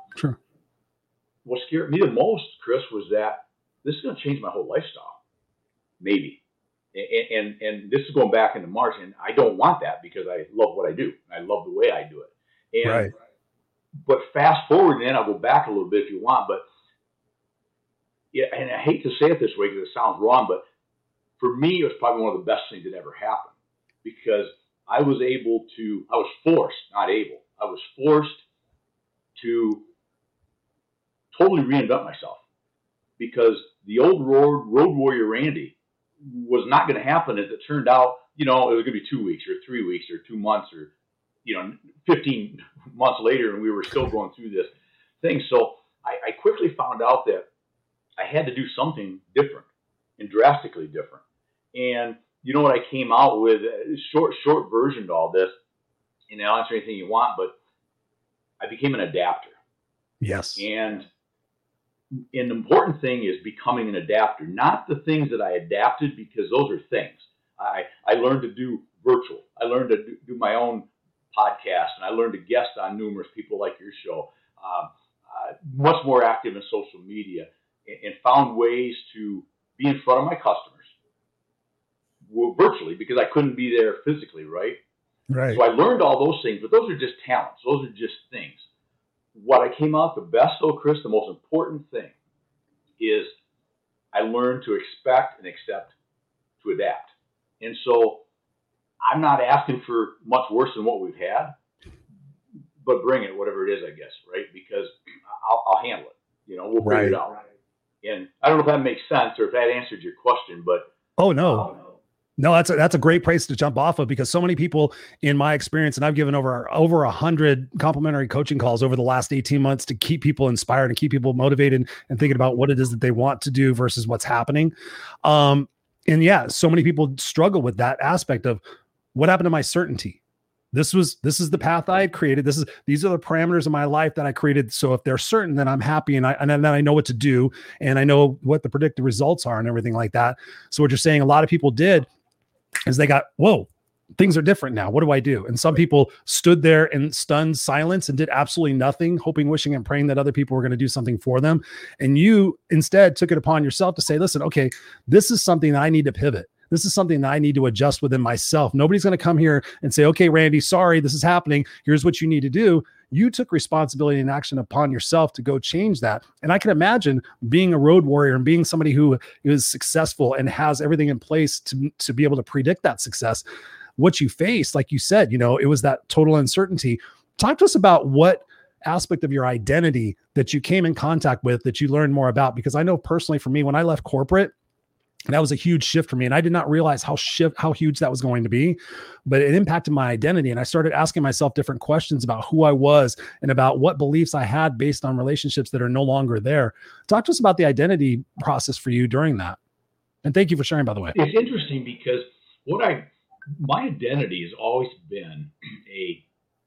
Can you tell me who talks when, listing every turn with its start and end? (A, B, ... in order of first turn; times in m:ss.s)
0:01.4-0:05.2 A
0:06.0-0:06.4 A
0:06.9-0:13.1 A
0:12.8-0:13.1 B
0:14.0-0:16.6 A
0:18.3-0:20.6 A
0:21.4-0:28.4 A
0:29.4-0:29.9 A
0:31.3-0:32.4 A
0:33.2-0:40.9 A
0:41.4-0:47.5 A
0:48.2-0:51.2 A
0:51.7-0:55.6 A
0:56.3-0:57.6 A
0:58.6-0:59.6 A
1:00.2-1:00.6 B
1:00.6-1:01.1 A
1:02.3-1:20.9 A
1:22.3-1:24.8 A
1:25.3-1:25.6 B
1:25.5-1:28.6 A
1:29.4-1:32.2 A
1:33.0-1:33.3 A
1:34.1-1:36.0 A
1:36.6-1:38.2 A
1:39.0-1:41.6 A
1:42.8-1:47.4 A
1:46.8-1:47.2 B
1:48.0-1:50.9 A
1:51.2-1:51.7 B
1:52.4-2:04.7 B
2:05.2-2:08.6 B
2:09.1-2:10.2 B
2:10.7-2:22.1 B
2:22.9-2:53.4 B
2:54.0-3:04.5 B
3:05.3-3:19.6 B
3:20.2-3:21.2 B
3:21.1-3:26.2 A